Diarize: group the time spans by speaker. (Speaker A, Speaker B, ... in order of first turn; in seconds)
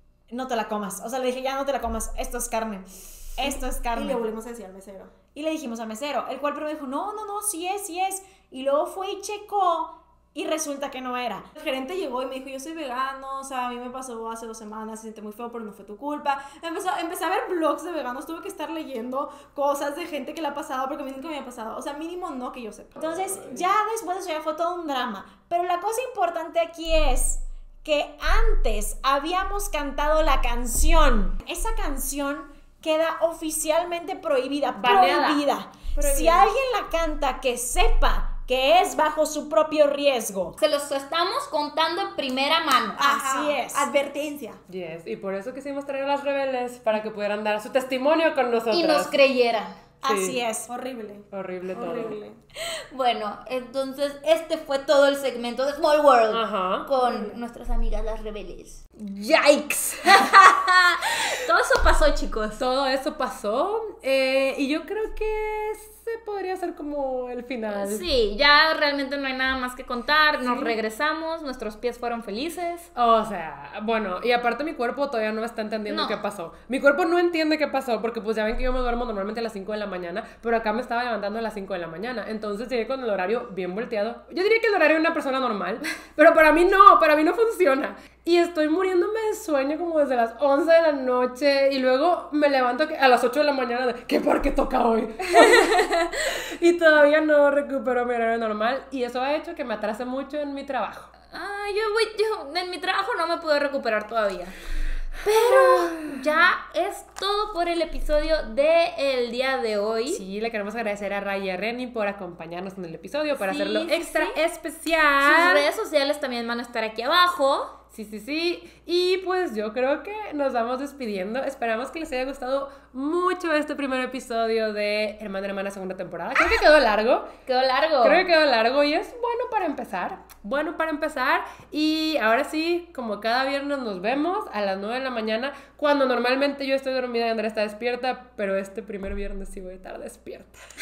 Speaker A: 0.3-4.3, 5.3-11.5, 23.0-40.6, 43.0-43.9, 50.0-50.7
Speaker B: 3.4-5.1, 11.6-23.1, 43.0-44.6, 50.7-52.4, 57.0-57.4
Speaker C: 23.0-23.6, 34.8-35.4, 44.7-49.1, 50.0-50.4, 51.3-52.2, 56.3-56.9, 62.6-68.0, 70.5-70.8, 73.0-101.1, 105.2-106.5, 110.1-115.7, 117.9-127.3, 128.0-140.6
Speaker D: 34.8-35.4, 36.0-36.5, 40.6-43.1, 48.7-49.8, 52.6-62.6, 67.8-72.9, 75.9-76.2, 95.3-96.1, 101.3-104.6, 105.2-110.2, 113.3-114.4, 115.2-117.7, 127.5-128.2